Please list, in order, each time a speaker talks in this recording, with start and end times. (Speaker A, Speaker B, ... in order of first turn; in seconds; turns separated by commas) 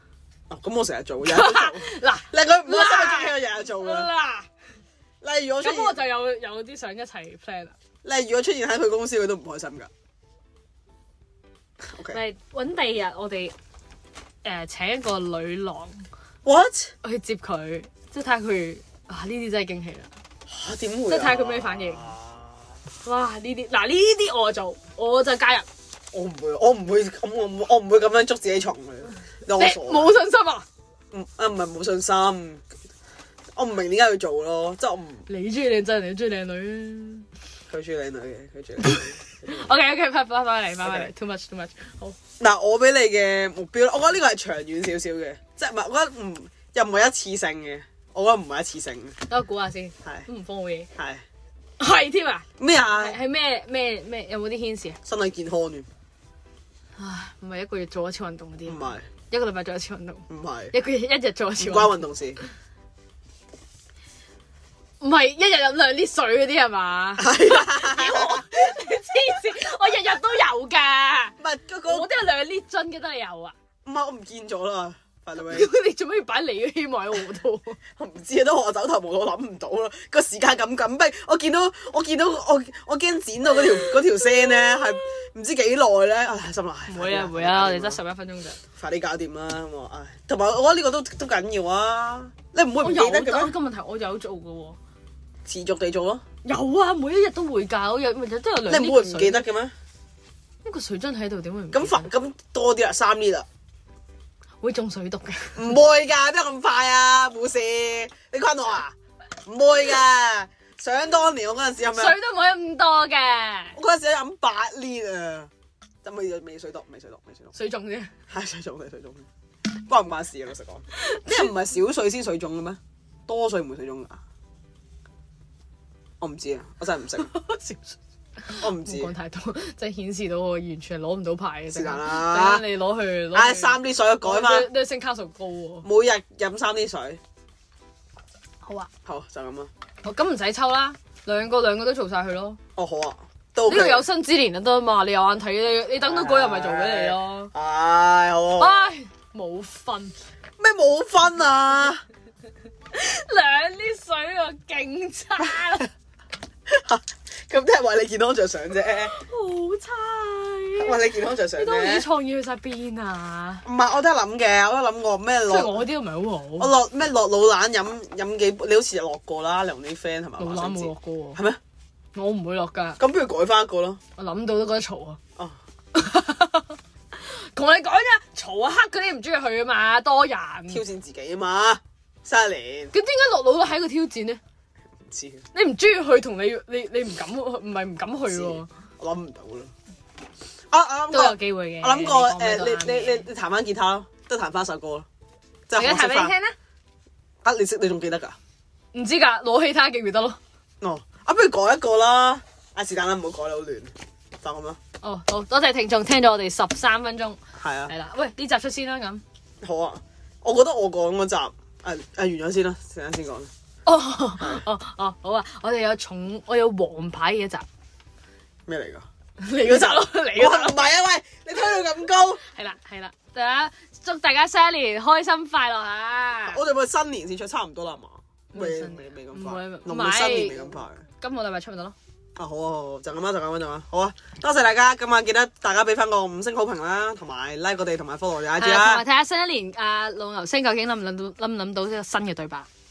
Speaker A: 0.5-4.1, Speaker B: 1.2-4.5, Speaker A: 5.2-6.0, Speaker B: 5.6-7.8, Speaker A: 8.0-9.9, Speaker A: 11.9-12.2, Speaker B: 12.1-13.6, Speaker B: 14.4-16.1, Speaker A: 16.4-16.9, Speaker B: 17.0-20.1, Speaker A: 20.5-22.5, Speaker B: 21.1-22.1, Speaker B: 23.0-25.7, Speaker A: 26.1-30.2, Speaker B: 29.5-30.7, Speaker A: 31.1-32.6, Speaker A: 33.6-35.3, Speaker B: 35.3-37.3, Speaker A: 37.7-39.7, Speaker B: 38.8-42.2, Speaker A: 40.8-41.1, Speaker A: 42.4-49.2, Speaker B: 49.3-50.9, Speaker A: 51.0-51.2, Speaker B: 51.8-55.0, Speaker A: 52.6-53.2, Speaker A: 55.1-55.9, Speaker B: 57.0-62.0, Speaker A: 58.7-59.1, Speaker A: 60.3-60.8, Speaker A: 61.6-62.4, Speaker B: 65.0-71.3, Speaker A: 67.2-68.5, Speaker A: 71.4-72.1, Speaker B: 71.9-73.5, Speaker A: 73.8-75.7, Speaker B: 75.5-77.8, Speaker A: 78.0-88.0, Speaker B: 86.9-88.6, Speaker A: 88.7-93.5, Speaker B: 92.8-94.8, Speaker A: 95.5-96.2, Speaker B: 96.4-99.5, Speaker A: 98.7-99.8, Speaker B: 100.6-102.1, Speaker A: 101.7-103.5, Speaker B: 104.6-105.7, Speaker A: 105.5-112.2, Speaker B: 111.9-113.8, Speaker A: 113.8-115.5, Speaker A: 116.0-117.5, Speaker B: 117.5-118.1, Speaker A: 118.3-124.2, Speaker B: 120.9-121.5, Speaker A: 126.2-127.3, Speaker B: 127.2-135.9, Speaker A: 128.5-129.1, Speaker A: 131.7-132.7, Speaker A: 133.3-134.7, Speaker A: 135.8-137.2, Speaker B: 138.6-138.9, Speaker A: 139.1-139.7, Speaker B: 140.0-142.6, Speaker A: 142.8-144.1, Speaker B: 143.7-147.5, Speaker A: 145.9-148.9, Speaker B: 148.6-150.2, Speaker A: 150.6-152.0, Speaker B: 152.9-155.9, Speaker A: 156.7-159.2, Speaker B: 158.9-160.9, Speaker A: 160.8-162.1, Speaker B: 161.5-163.7, Speaker A: 163.6-165.9, Speaker B: 165.5-166.7, Speaker A: 166.6-171.6, Speaker B: 170.4-171.4, Speaker B: 172.1-173.0, Speaker A: 173.0-174.0, Speaker B: 174.2-175.2, Speaker B: 175.9-180.8, Speaker A: 180.7-182.9, Speaker B: 182.9-184.4, Speaker A: 185.1-185.5, Speaker B: 185.5-188.7, Speaker A: 188.2-189.7, Speaker A: 190.7-195.1, Speaker B: 191.1-193.3, Speaker A: 195.7-196.3, Speaker B: 195.8-196.6, Speaker A: 197.4-198.4, Speaker B: 198.9-200.4, Speaker A: 200.8-204.8, Speaker B: 205.0-209.2, Speaker A: 207.6-207.9, Speaker A: 209.6-213.5, Speaker B: 213.9-217.7, Speaker A: 214.4-214.6, Speaker A: 218.7-222.4, Speaker B: 219.4-220.8, Speaker B: 222.4-226.6, Speaker A: 226.5-231.0, Speaker B: 228.5-232.0, Speaker A: 232.4-239.1, Speaker B: 238.6-242.7